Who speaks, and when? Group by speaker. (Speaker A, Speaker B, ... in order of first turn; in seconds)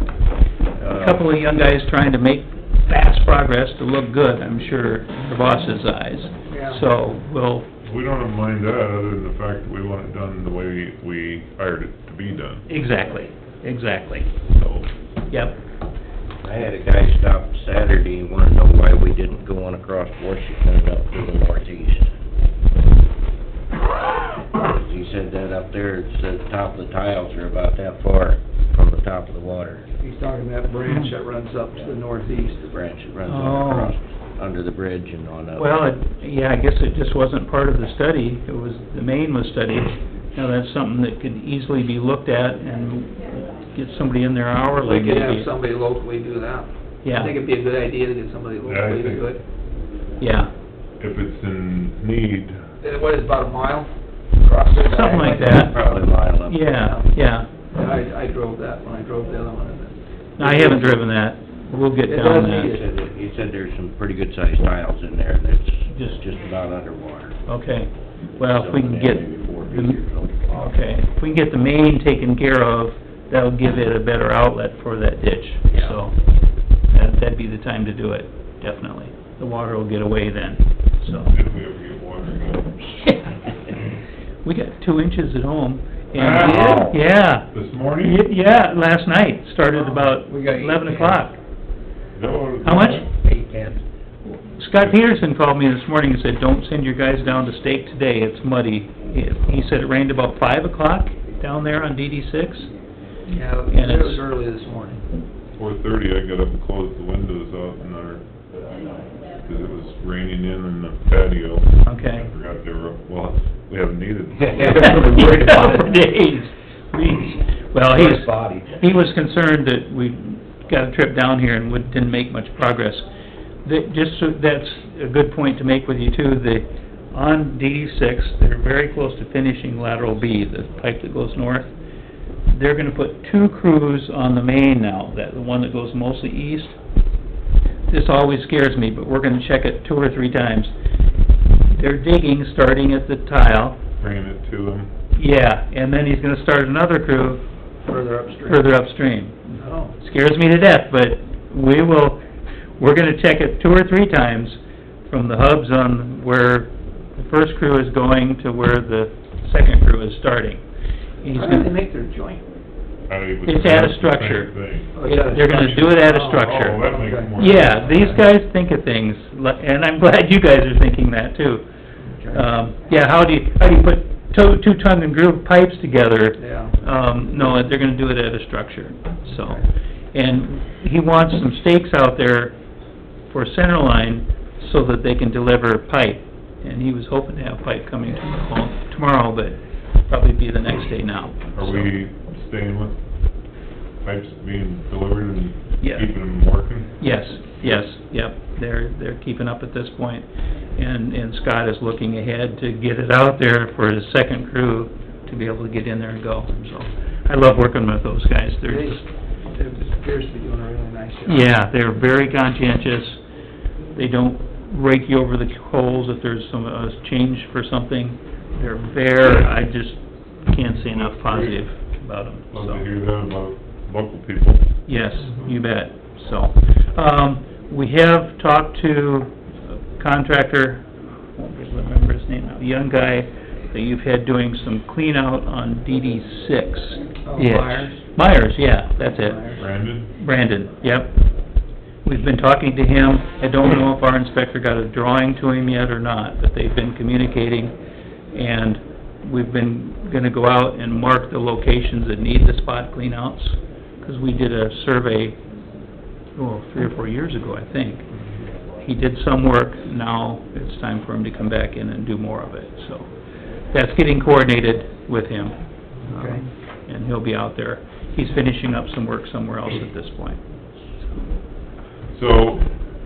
Speaker A: 0.8-7.7, 12.7-14.3, 15.3-15.6, 33.3-34.0, 35.6-45.5, 47.0-47.3, 50.2-50.5, 54.9-55.8, 56.5-57.5, 60.4-62.8, 65.9-66.2, 67.5-70.0, 70.5-76.2, 76.9-81.3, 83.0-83.5, 84.5-91.4, 92.6-93.1, 94.3-102.7, 103.7-104.2, 111.8-112.3, 114.6-123.1, 123.7-131.7, 132.5-136.8, 137.9-140.7, 141.7-143.8, 145.2-147.4, 148.5-152.2, 152.8-160.6, 161.2-161.7, 163.5-171.7, 172.3-179.6, 180.1-182.6, 183.3-191.9, 195.8-196.1, 197.0-200.2, 200.8-209.1, 211.3-213.2, 213.9-222.8, 224.9-230.8, 231.4-239.6, 240.2-241.2, 242.0-247.8, 248.3-255.4, 256.4-258.1, 258.8-263.1, 263.7-265.6, 266.1-270.4
Speaker B: 6.5-6.8, 30.0-32.6, 44.8-49.4, 52.8-56.1, 56.7-57.2, 57.7-60.9, 62.0-62.8, 90.1-91.2, 93.2-93.8, 103.3-105.0, 147.8-148.7, 149.6-149.9, 161.3-162.4, 164.9-168.1, 172.1-172.5, 176.4-176.8, 179.3-179.7, 208.7-209.0, 209.5-211.5, 237.3-238.0, 239.2-239.6, 266.0-266.4
Speaker C: 7.8-12.7, 14.6-14.9, 48.7-49.3, 51.0-52.6, 81.3-82.9, 86.2-87.0, 87.5-88.2, 92.2-93.1, 105.6-108.2, 109.3-115.3, 144.0-144.9, 163.1-165.0, 165.6-168.0, 191.6-193.0, 194.0-197.0, 220.9-221.6, 222.5-224.7, 239.6-240.1, 272.1-272.7
Speaker D: 16.4-22.1, 24.6-29.9, 32.5-35.8, 55.1-56.7, 62.6-67.4, 68.4-70.7, 75.7-76.0, 114.4-115.9, 117.9-118.8